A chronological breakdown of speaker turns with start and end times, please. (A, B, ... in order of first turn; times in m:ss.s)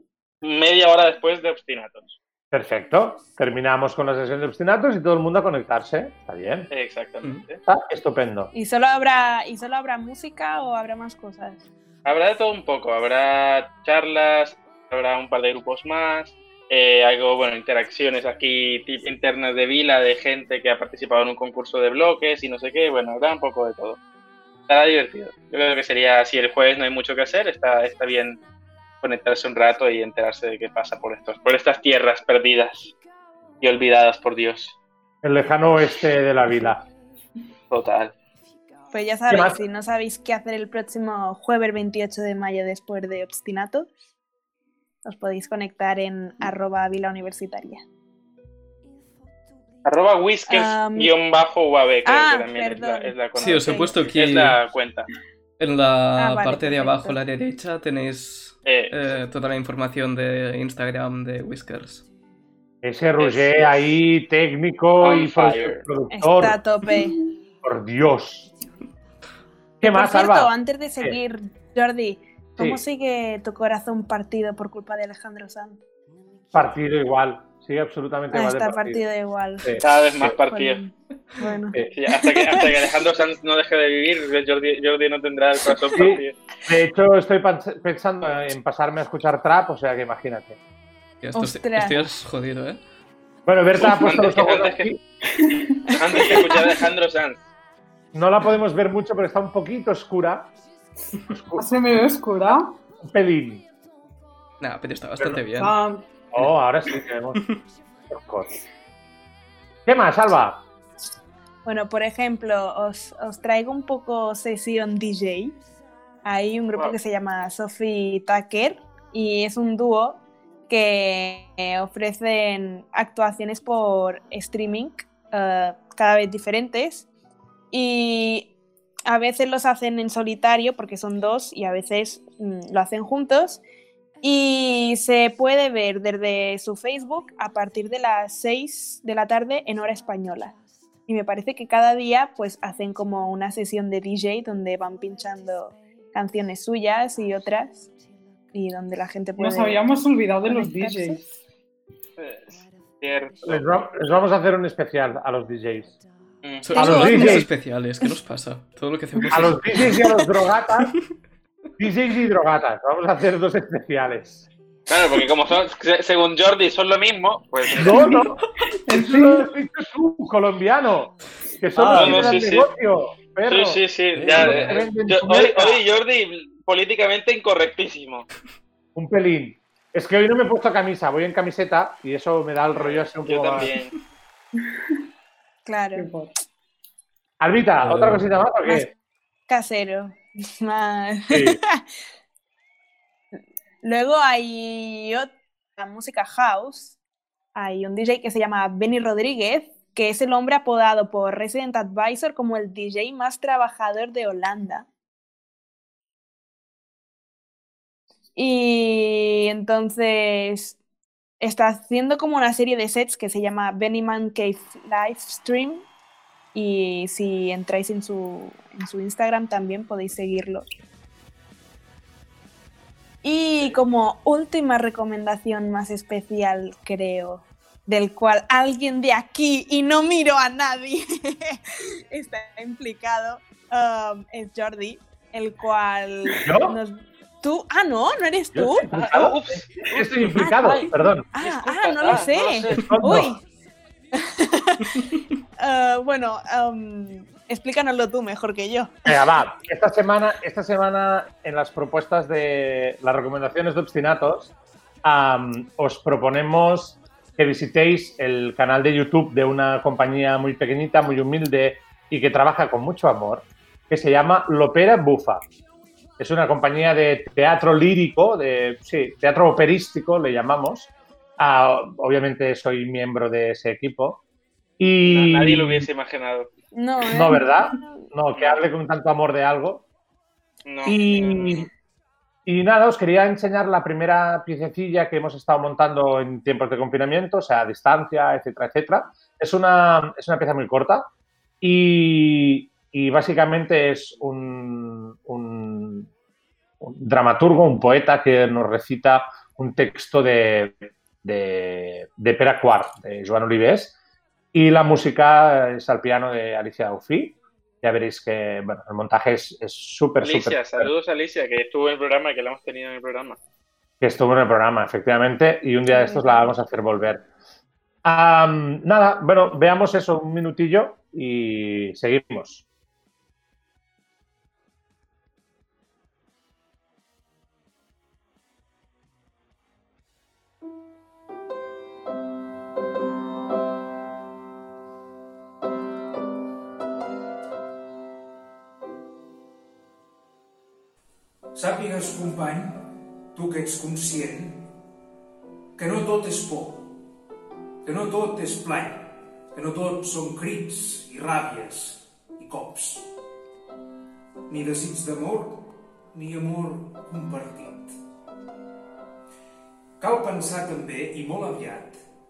0:00.4-0:02.2 A
0:02.5-0:06.7 B
0:06.7-0:07.6 A
0:07.6-0:08.5 B
0:08.5-0:11.6 C
0:12.0-0:24.0 A
0:24.7-0:28.4 A
0:29.0-0:32.9 A
0:33.6-0:34.8 A
0:35.2-0:36.8 B
0:37.7-0:38.1 A
0:38.9-0:43.9 C
0:39.3-0:39.6 B
0:45.0-0:47.8 C
0:49.8-0:55.1 A
0:50.5-0:51.1 C
0:52.0-0:54.0 C
0:53.4-0:54.6 D
0:55.6-1:02.0 D
0:56.2-0:57.2 C
0:58.6-0:59.0 A
1:02.8-1:06.6 B
1:03.2-1:03.8 A
1:05.0-1:05.8 A
1:06.1-1:07.2 C
1:07.6-1:08.5 B
1:09.8-1:11.2 B
1:09.8-1:15.8 C
1:16.5-1:19.0 B
1:18.3-1:22.6 C
1:19.6-1:20.3 B
1:19.8-1:20.8 A
1:21.9-1:26.4 A
1:25.9-1:30.6 B
1:31.2-1:32.8 D
1:31.4-1:32.1 C
1:33.4-1:35.0 B
1:33.7-1:34.9 A
1:35.4-1:35.8 E
1:35.9-1:37.5 A
1:36.3-1:36.7 C
1:38.1-1:40.5 B
1:41.3-1:41.8 B
1:41.6-1:42.7 E
1:42.4-1:43.6 B
1:44.6-1:45.7 D
1:45.6-1:46.0 E
1:46.3-1:47.4 B
1:48.1-1:48.6 B
1:49.8-1:50.6 B
1:51.6-1:55.6 C
1:56.2-2:07.0 C
2:07.7-2:08.5 C
2:09.1-2:13.6 C
2:14.2-2:20.5 C
2:21.1-2:27.9 C
2:28.5-2:29.9 C
2:29.4-2:31.3 E
2:30.4-2:31.2 C
2:32.2-2:33.7 A
2:33.4-2:36.0 B
2:36.4-2:36.8 A
2:36.6-2:40.1 D
2:36.7-2:37.4 C
2:36.8-2:37.5 B
2:39.3-2:40.9 B
2:41.8-2:44.5 B
2:44.9-2:47.9 A
2:47.8-2:48.4 B
2:47.9-2:48.2 E
2:48.9-2:49.5 E
2:48.9-2:53.8 B
2:51.8-2:52.7 A
2:51.8-2:52.3 D
2:53.4-2:58.3 A
2:54.2-2:54.7 D
2:54.3-2:55.8 B
2:58.9-3:03.7 B
3:02.8-3:03.9 A
3:05.6-3:06.1 C
3:05.9-3:06.3 E
3:07.4-3:08.9 B
3:07.8-3:08.3 D
3:09.5-3:11.8 C
3:11.3-3:11.6 B
3:13.8-3:17.0 C
3:17.5-3:24.8 C
3:28.4-3:30.8 C
3:31.4-3:35.8 C
3:36.5-3:40.7 C
3:43.2-3:51.6 C
3:52.1-3:59.3 C
3:56.4-3:56.8 B
3:58.5-4:01.2 B
3:58.9-3:59.6 A
4:00.0-4:03.4 C
4:00.6-4:02.9 A
4:02.7-4:03.3 B
4:04.1-4:05.0 C
4:05.6-4:09.0 C
4:09.0-4:25.4 B
4:26.2-4:34.2 B
4:34.8-4:35.9 B
4:35.0-4:36.5 A
4:36.7-4:37.8 C
4:37.1-4:39.8 B
4:38.4-4:38.6 A
4:40.6-4:41.7 A
4:40.8-4:41.7 B
4:42.4-4:51.1 B
4:51.6-4:56.1 B
4:56.8-5:04.0 B
5:04.5-5:10.9 B
5:10.2-5:13.4 A
5:14.0-5:17.3 B
5:15.9-5:16.5 C
5:18.0-5:22.6 B
5:41.5-5:44.7 F
5:45.8-5:46.9 F
5:47.8-5:53.1 F
5:54.5-5:58.0 F
6:00.0-6:02.0 F